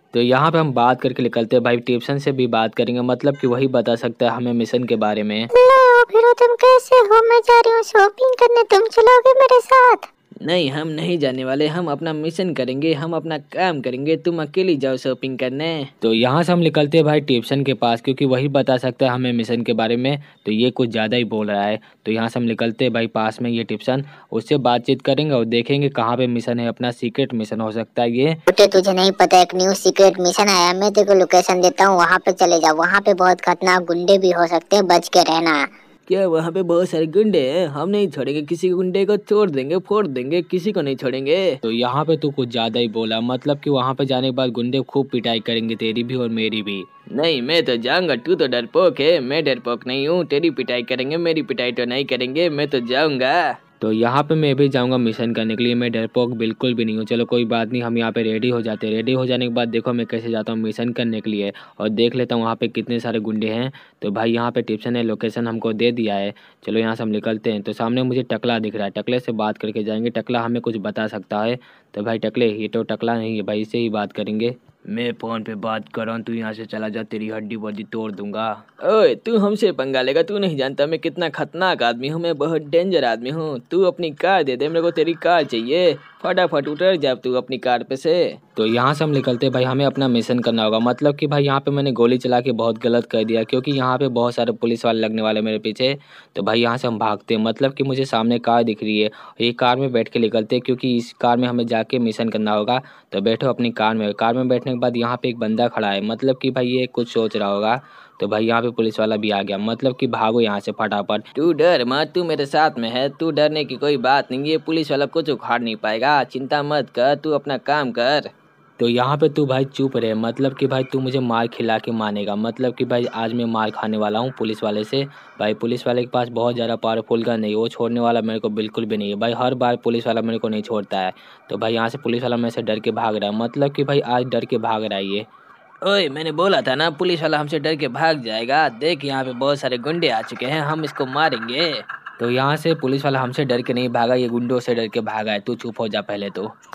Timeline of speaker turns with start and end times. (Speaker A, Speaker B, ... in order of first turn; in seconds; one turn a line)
Speaker A: 0.1-5.5
Speaker B: 5.5-10.1
Speaker C: 10.4-15.9
Speaker A: 16.0-28.4
Speaker B: 28.5-35.6
Speaker C: 36.1-41.5
Speaker A: 41.6-46.9
Speaker C: 47.1-53.5
Speaker A: 53.8-74.5
Speaker C: 74.9-77.5
Speaker A: 77.5-78.6
Speaker C: 78.8-88.4
Speaker A: 88.6-111.2
Speaker C: 111.3-118.3
Speaker A: 118.8-135.2
Speaker C: 135.8-141.8
Speaker A: 142.2-146.5